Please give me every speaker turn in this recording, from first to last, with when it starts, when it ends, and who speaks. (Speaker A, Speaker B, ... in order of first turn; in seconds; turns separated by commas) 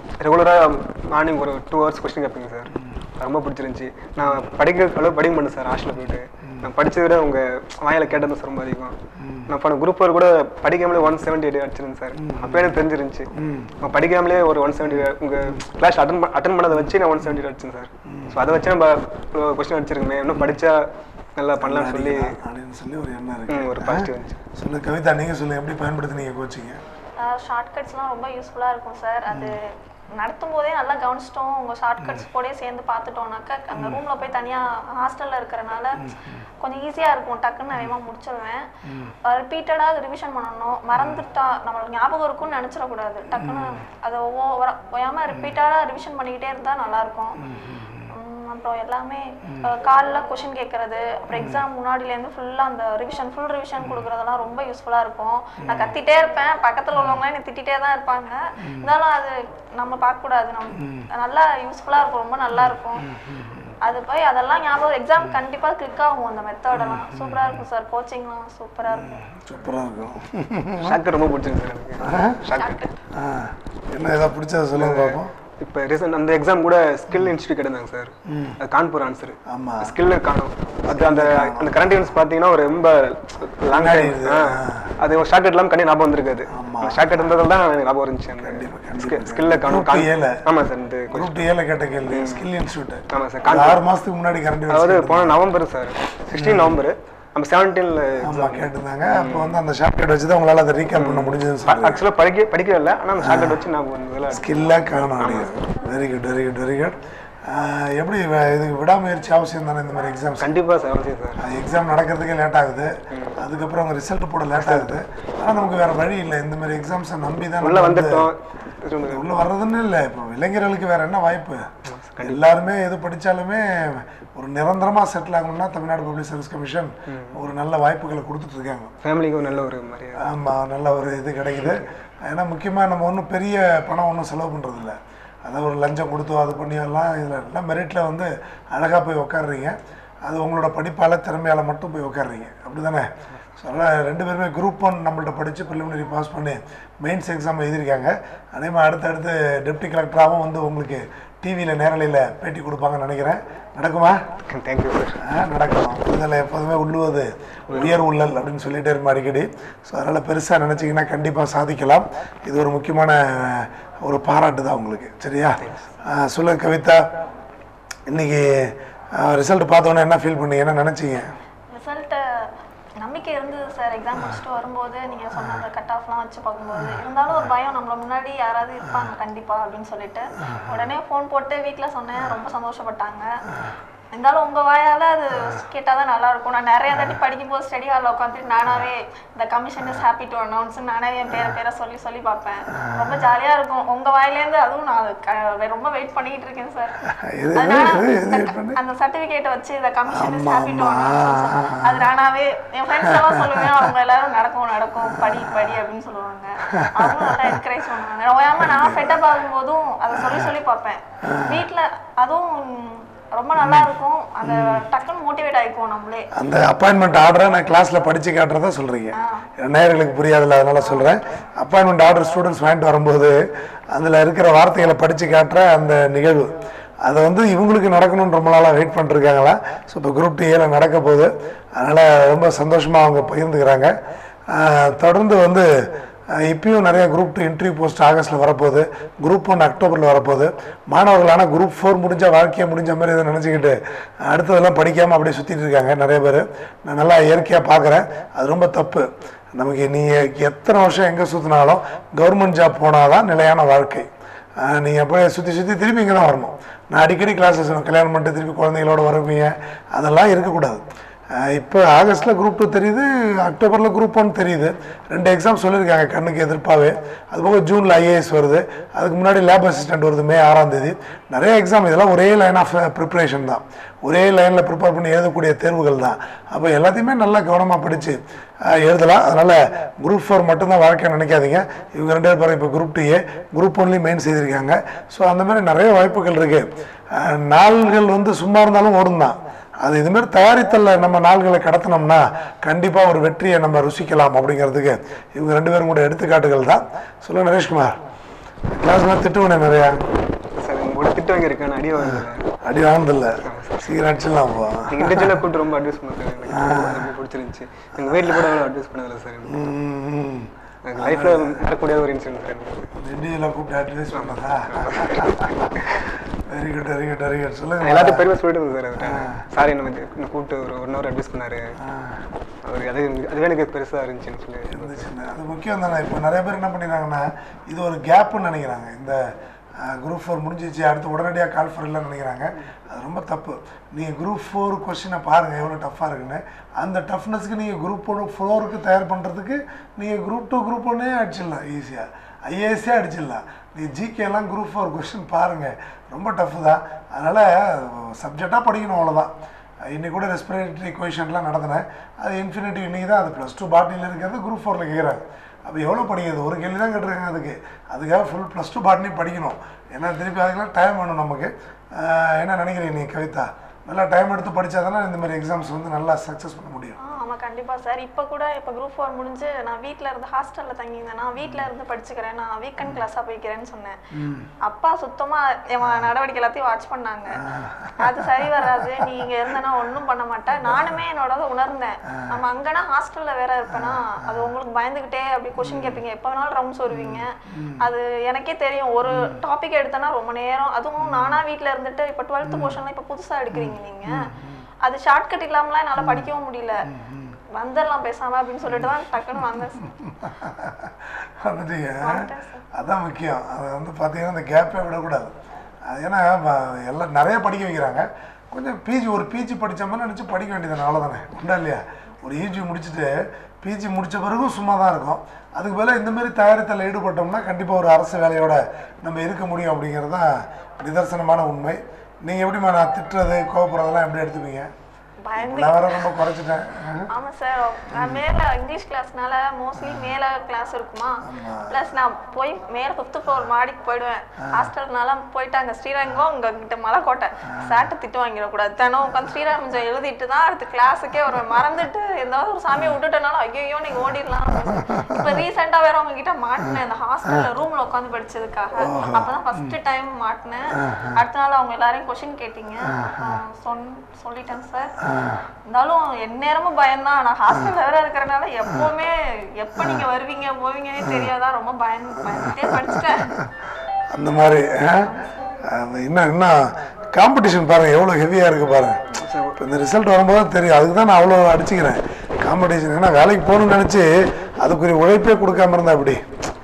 Speaker A: 0.2-9.0, Speaker B: 9.2-9.5, Speaker A: 9.5-22.3, Speaker B: 12.2-12.7, Speaker B: 13.4-13.7, Speaker B: 14.9-15.6, Speaker B: 16.7-17.4, Speaker B: 18.1-18.4, Speaker B: 21.6-26.8, Speaker A: 23.5-24.4, Speaker C: 27.2-36.1, Speaker B: 29.3-29.6, Speaker B: 33.7-34.0, Speaker B: 36.0-36.4, Speaker C: 36.6-38.7, Speaker B: 38.9-39.1, Speaker C: 39.2-47.4, Speaker B: 41.0-41.2, Speaker B: 43.3-43.8, Speaker B: 47.4-48.1, Speaker C: 48.1-63.1, Speaker B: 51.3-51.6, Speaker B: 55.6-56.0, Speaker B: 63.0-63.7, Speaker C: 63.8-69.2, Speaker B: 66.7-67.6, Speaker B: 68.9-71.0, Speaker A: 70.8-72.8, Speaker B: 72.0-72.4, Speaker C: 72.6-73.0, Speaker B: 73.1-75.3, Speaker A: 74.7-91.5, Speaker B: 78.3-78.6, Speaker B: 79.5-80.0, Speaker B: 80.9-81.7, Speaker B: 83.7-84.9, Speaker B: 86.5-87.3, Speaker B: 88.4-90.4, Speaker B: 91.1-95.4, Speaker A: 92.1-92.5, Speaker A: 93.1-93.8, Speaker A: 94.7-99.6, Speaker B: 96.3-96.8, Speaker B: 98.2-102.0, Speaker A: 101.0-104.5, Speaker B: 103.2-103.6, Speaker B: 104.3-110.5, Speaker A: 105.2-105.6, Speaker A: 110.4-111.5, Speaker B: 111.4-118.3, Speaker A: 113.1-113.4, Speaker A: 114.5-115.0, Speaker A: 117.6-119.3, Speaker B: 119.1-128.9, Speaker A: 121.9-122.5, Speaker A: 127.1-127.4, Speaker A: 129.0-130.3, Speaker B: 130.2-154.2, Speaker A: 154.5-155.2, Speaker B: 155.2-167.1, Speaker A: 157.7-158.0, Speaker A: 165.6-165.9, Speaker B: 168.1-171.3, Speaker C: 171.7-172.5, Speaker C: 173.0-183.3, Speaker B: 175.4-175.6, Speaker B: 176.7-177.5, Speaker C: 184.1-197.0, Speaker B: 192.7-193.1, Speaker B: 197.1-198.8, Speaker C: 197.5-216.3, Speaker B: 200.1-202.1, Speaker B: 203.0-203.9, Speaker B: 205.1-205.7, Speaker B: 206.7-207.6, Speaker B: 208.6-209.3, Speaker B: 210.1-210.5, Speaker B: 211.2-211.6, Speaker B: 213.6-214.8, Speaker B: 216.3-233.9, Speaker C: 219.2-219.5, Speaker C: 220.8-221.4, Speaker B: 234.5-235.7, Speaker B: 236.3-298.0, Speaker B: 298.7-300.0, Speaker A: 300.6-302.4, Speaker B: 302.0-305.4, Speaker A: 303.4-303.9, Speaker A: 304.9-309.6, Speaker B: 306.5-307.1, Speaker B: 309.5-311.7, Speaker A: 310.9-312.9, Speaker B: 313.0-318.2, Speaker A: 314.1-316.0, Speaker A: 317.8-321.6, Speaker B: 319.0-319.4, Speaker B: 321.9-322.2, Speaker A: 322.7-325.1, Speaker B: 324.7-329.2, Speaker B: 329.8-349.3, Speaker B: 349.8-367.0, Speaker C: 367.0-374.0, Speaker B: 374.1-374.5, Speaker C: 374.6-377.4, Speaker B: 377.4-379.1, Speaker C: 378.0-387.3, Speaker B: 383.7-384.5, Speaker B: 385.6-386.0, Speaker B: 386.9-387.9, Speaker C: 387.8-394.2, Speaker B: 389.1-389.4, Speaker B: 391.0-391.4, Speaker B: 392.4-392.8, Speaker B: 393.5-394.6, Speaker C: 394.8-396.9, Speaker B: 396.0-396.3, Speaker B: 396.9-397.4, Speaker C: 397.5-399.9, Speaker B: 399.8-405.3, Speaker C: 402.0-402.6, Speaker B: 405.9-424.7, Speaker C: 425.3-426.2, Speaker B: 425.4-427.1, Speaker C: 427.1-454.9, Speaker B: 427.9-428.2, Speaker B: 429.8-430.1, Speaker B: 431.2-431.7, Speaker B: 434.4-434.7, Speaker B: 437.5-437.9, Speaker B: 444.5-445.4, Speaker B: 448.8-449.7, Speaker B: 450.8-451.1, Speaker B: 452.9-453.4, Speaker B: 455.0-455.4, Speaker C: 455.7-463.4, Speaker B: 459.8-460.1, Speaker B: 462.3-463.5, Speaker B: 464.1-465.1, Speaker B: 465.6-469.0, Speaker A: 469.2-469.6, Speaker B: 469.6-476.2